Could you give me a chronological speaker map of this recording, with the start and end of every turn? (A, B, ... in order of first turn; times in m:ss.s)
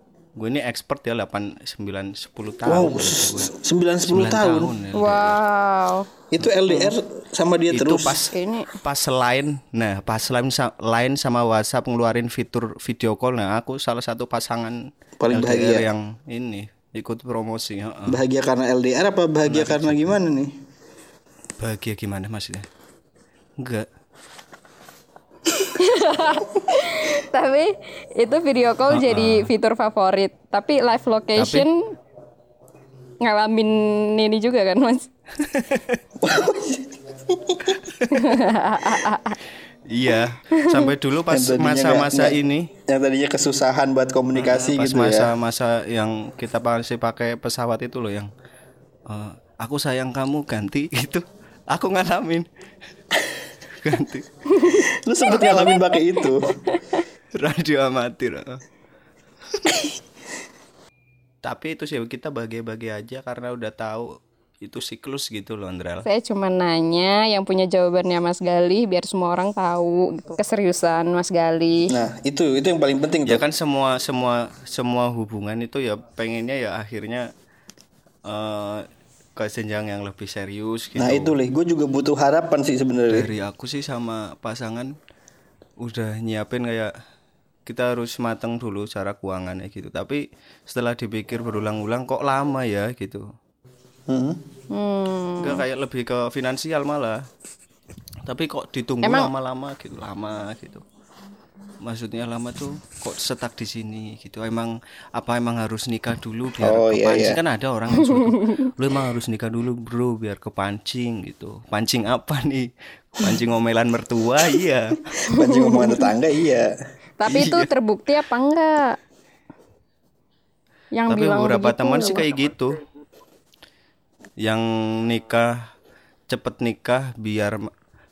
0:00.4-0:03.5 A
0:02.6-0:04.7 B
0:04.1-0:05.4 A
0:04.9-0:06.1 C
0:06.3-0:08.2 B
0:06.4-0:07.0 A
0:07.7-0:14.8 A
0:08.3-0:08.7 C
0:15.2-0:15.8 B
0:15.3-0:18.2 A
0:18.1-0:20.5 B
0:19.4-0:20.2 A
0:21.6-0:22.6 A
0:23.6-0:23.9 A
0:25.5-0:31.8 C
0:28.9-0:29.5 A
0:31.4-0:31.7 A
0:33.2-0:35.1 C
0:35.4-0:36.0 A
0:36.2-0:37.8 B
0:37.8-0:38.3 A
0:38.1-0:39.4 C
0:39.9-0:42.7 A
0:40.5-0:40.9 C
0:41.3-0:45.3 B
0:44.3-0:48.3 A
0:49.1-0:52.5 A
0:53.8-0:54.3 A
0:54.5-0:55.8 C
0:54.7-0:56.4 B
0:55.4-0:55.8 A
0:56.7-0:57.0 C
0:57.4-0:58.6 A
1:01.4-1:04.1 A
1:04.6-1:06.1 A
1:06.0-1:11.9 C
1:11.9-1:13.4 B
1:13.2-1:17.3 A
1:18.3-1:21.4 A
1:21.0-1:23.3 B
1:23.1-1:24.9 A
1:25.8-1:26.9 A
1:27.6-1:33.2 A
1:34.1-1:34.4 B
1:34.7-1:35.6 C
1:35.4-1:37.2 A
1:38.2-1:40.8 A
1:39.0-1:39.3 C
1:41.8-1:55.2 A
1:46.6-1:47.4 B
1:48.0-1:48.7 C
1:55.3-1:56.7 B
1:55.3-1:56.1 C
1:57.2-1:59.0 C
1:57.3-1:57.7 A
2:00.9-2:02.3 C
2:01.1-2:02.8 A
2:04.4-2:05.5 A
2:06.3-2:07.7 A